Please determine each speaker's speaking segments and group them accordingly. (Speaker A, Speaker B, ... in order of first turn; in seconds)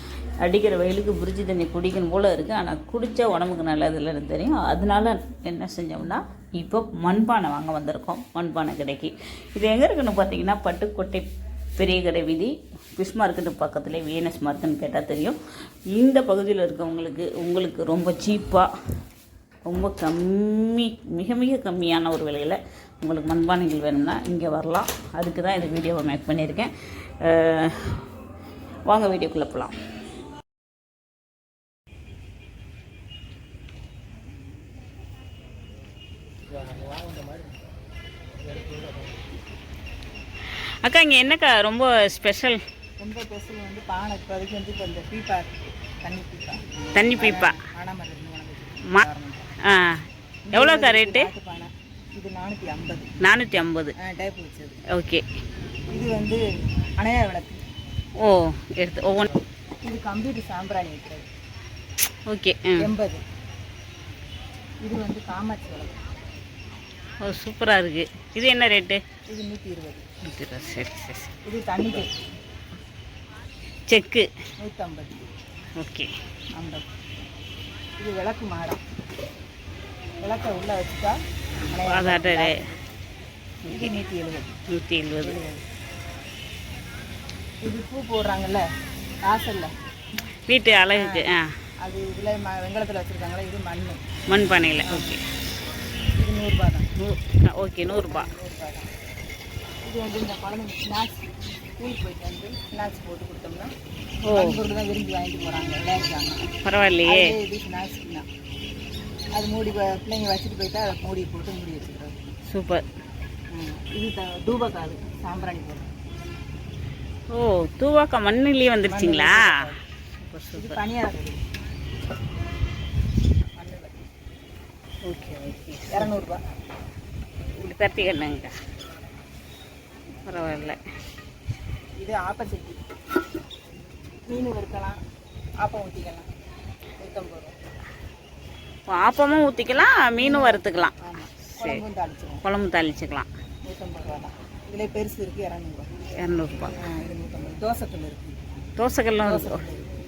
Speaker A: 0.4-15.4, 15.9-18.7, 19.6-28.0, 28.9-29.7, 40.6-42.6, 47.0-47.6, 49.6-50.0, 50.5-51.3, 53.2-53.9, 54.9-55.2, 58.2-59.4, 62.3-62.9, 67.2-69.0, 70.2-71.3, 73.9-74.3, 75.8-76.1, 81.8-82.6, 84.7-85.4, 90.5-91.5, 94.3-95.2, 97.0-98.3, 104.2-104.6, 106.6-107.3, 112.5-112.8, 117.3-119.5, 120.2-120.8, 125.0-126.1, 127.6-128.5, 130.2-130.8, 138.9-140.9, 142.4-143.3, 146.2-146.7, 148.8-149.6
Speaker B: 43.0-49.5, 50.5-53.1, 54.0-54.8, 55.9-56.4, 57.0-57.6, 59.8-61.2, 62.8-63.2, 64.8-66.0, 69.3-70.0, 71.4-72.3, 74.6-75.3, 76.5-76.8, 78.0-78.8, 80.2-81.2, 81.7-82.8, 83.7-84.5, 85.2-85.6, 87.6-88.7, 89.2-89.7, 90.9-91.3, 91.8-94.0, 94.8-95.1, 96.2-96.9, 98.0-98.9, 99.8-103.7, 104.3-106.4, 107.0-108.2, 109.3-112.3, 113.5-115.9, 118.9-119.8, 120.5-121.4, 123.5-124.0, 125.9-126.4, 132.0-132.8, 134.3-135.0, 135.6-136.3, 137.0-137.5, 140.2-142.4, 143.7-145.9, 146.7-148.5, 149.2-149.9